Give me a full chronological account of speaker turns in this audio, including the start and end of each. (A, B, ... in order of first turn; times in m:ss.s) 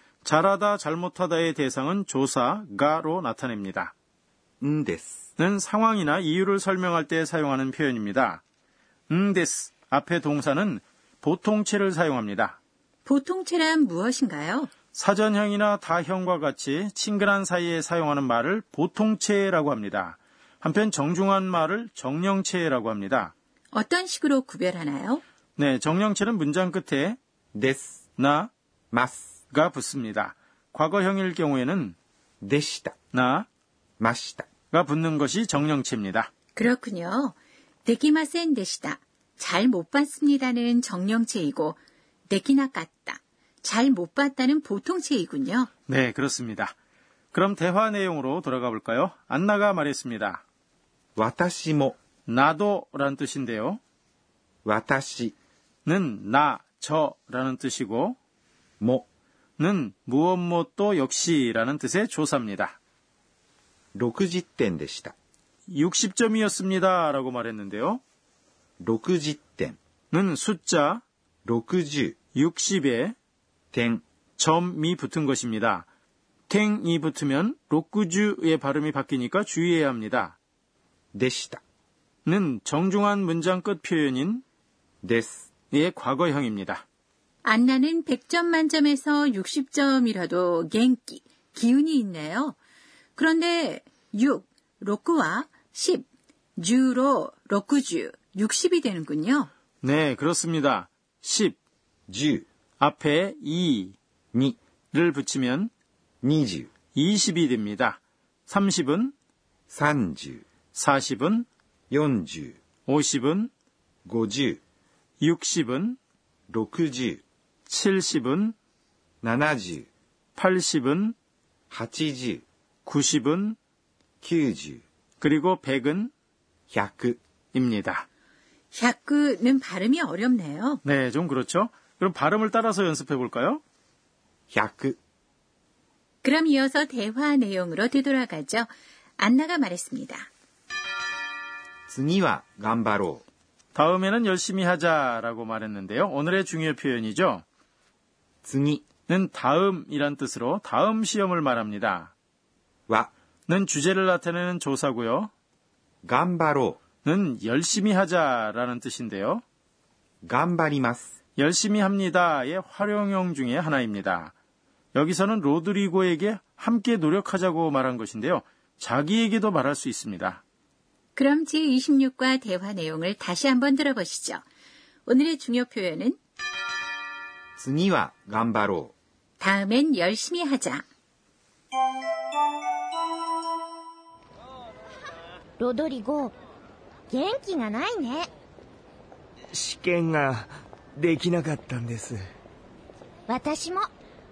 0:00.2-0:03.9 A
0:04.6-0:05.2 B
0:05.4-0:08.4 A
0:09.1-0:12.6 A
0:13.0-0:14.7 C
0:14.9-0:23.3 A
0:23.7-0:25.2 C
0:25.6-0:27.2 A
0:27.5-0:28.0 B
0:28.2-0:28.5 A
0:28.9-0:29.3 B
0:29.5-0:32.0 A
0:32.4-0:32.9 B
0:33.1-0:33.5 A
0:34.0-0:34.5 B
0:34.7-0:36.3 A
0:36.6-0:45.7 C
0:45.9-0:46.7 A
0:47.3-0:50.4 A
0:51.2-0:52.0 B
0:52.3-0:53.8 A
0:54.6-0:55.3 B
0:55.8-0:58.2 A
0:58.8-0:59.0 B
0:59.6-1:02.8 A
1:03.9-1:05.1 B
1:05.7-1:08.0 A
1:08.8-1:09.8 B
1:10.1-1:11.0 A
1:11.4-1:12.2 B
1:12.3-1:13.1 A
1:13.7-1:14.0 B
1:14.4-1:15.9 A
1:16.5-1:20.4 A
1:21.1-1:21.6 B
1:22.2-1:24.4 A
1:25.0-1:25.4 B
1:25.7-1:26.8 A
1:27.4-1:32.6 C
1:33.2-1:36.0 C
1:36.6-1:39.5 C
1:39.8-1:41.6 A
1:42.1-1:42.4 B
1:42.8-1:44.0 A
1:44.9-1:45.7 A
1:46.2-1:46.7 B
1:46.9-1:49.1 A
1:49.7-1:50.4 B
1:50.8-1:51.4 A
1:51.9-1:52.6 B
1:52.9-1:53.5 A
1:54.0-1:54.6 B
1:55.2-1:56.0 A
1:56.5-1:57.2 B
1:57.7-1:58.5 A
1:59.2-1:59.9 B
2:00.4-2:01.1 A
2:01.7-2:02.4 B
2:02.8-2:03.6 A
2:04.2-2:04.8 B
2:05.2-2:06.1 A
2:06.7-2:07.2 B
2:07.5-2:08.0 A
2:08.7-2:10.8 C
2:10.8-2:13.6 A
2:14.5-2:15.0 B
2:16.2-2:20.3 C
2:21.9-2:23.2 B
2:23.7-2:27.4 A
2:28.4-2:28.8 B
2:29.1-2:32.1 A
2:33.5-2:35.3 A
2:36.0-2:36.8 B
2:37.0-2:39.4 A
2:40.2-2:41.1 B
2:41.4-2:44.3 A
2:44.9-2:50.4 A
2:51.2-2:54.4 C
2:55.0-2:56.2 C
2:57.6-2:58.9 B
2:59.4-3:00.8 C
3:05.6-3:06.3 D
3:07.1-3:08.3 D
3:09.5-3:12.2 E
3:13.3-3:13.9 D